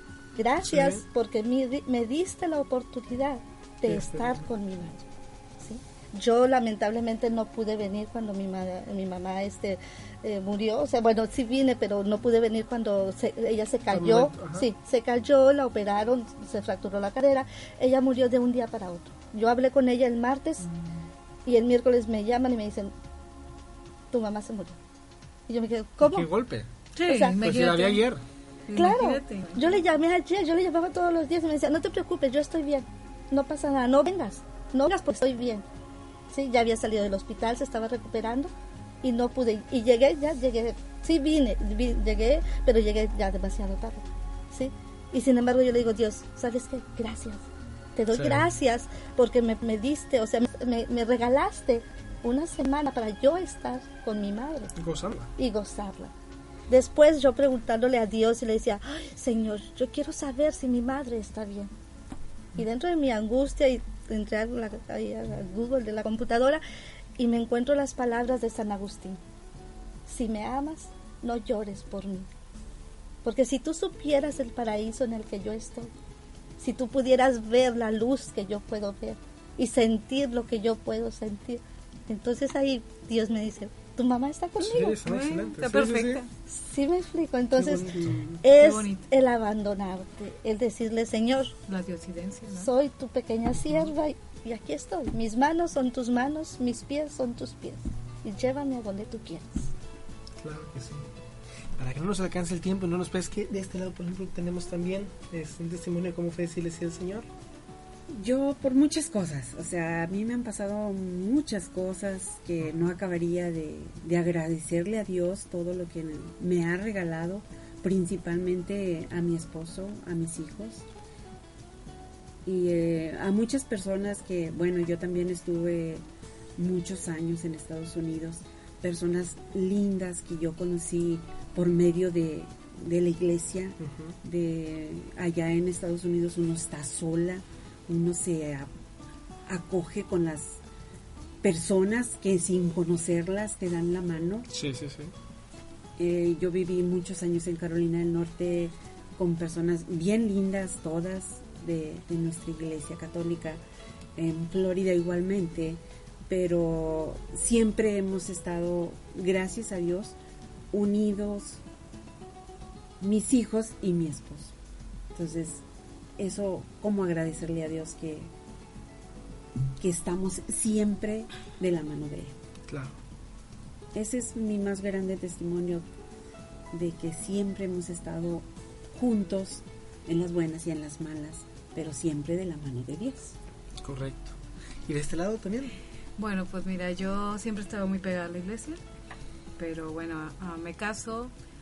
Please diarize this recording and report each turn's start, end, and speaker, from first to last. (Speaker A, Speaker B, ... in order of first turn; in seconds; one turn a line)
Speaker A: 0.3-5.0
Speaker B: 0.6-1.0
Speaker B: 3.9-4.4
Speaker A: 5.6-20.7
Speaker B: 13.9-14.6
Speaker A: 21.4-22.9
Speaker A: 24.1-24.8
Speaker A: 25.5-26.3
Speaker B: 26.0-26.7
Speaker C: 26.9-28.0
Speaker A: 27.0-27.4
Speaker B: 27.3-28.2
Speaker C: 28.7-29.8
Speaker A: 28.7-35.6
Speaker A: 36.3-47.4
Speaker A: 47.9-54.7
Speaker B: 48.1-48.4
Speaker B: 54.8-55.3
Speaker A: 55.4-56.1
Speaker A: 56.7-61.7
Speaker A: 62.5-66.6
Speaker A: 67.2-69.2
Speaker A: 70.0-72.3
Speaker A: 73.2-75.9
Speaker A: 76.6-85.0
Speaker B: 84.6-86.2
Speaker C: 85.0-86.3
Speaker A: 86.5-91.5
Speaker D: 87.6-88.3
Speaker C: 88.5-89.0
Speaker C: 91.7-92.7
Speaker A: 92.5-99.7
Speaker B: 100.4-101.1
Speaker B: 101.8-107.3
Speaker D: 108.1-120.8
Speaker D: 122.5-126.0
Speaker D: 126.6-138.7
Speaker B: 133.8-134.1
Speaker D: 139.5-140.6
Speaker D: 141.4-144.5
Speaker B: 144.5-145.1
Speaker D: 146.0-153.6
Speaker D: 154.2-160.1
Speaker D: 160.7-161.6
Speaker D: 163.0-164.5
Speaker D: 165.1-165.6
Speaker D: 166.2-168.3
Speaker D: 169.8-172.3
Speaker B: 172.7-172.9
Speaker D: 173.9-175.8
Speaker D: 176.7-183.3
Speaker B: 183.8-184.3
Speaker B: 184.9-185.8
Speaker C: 186.2-188.8
Speaker C: 189.6-191.3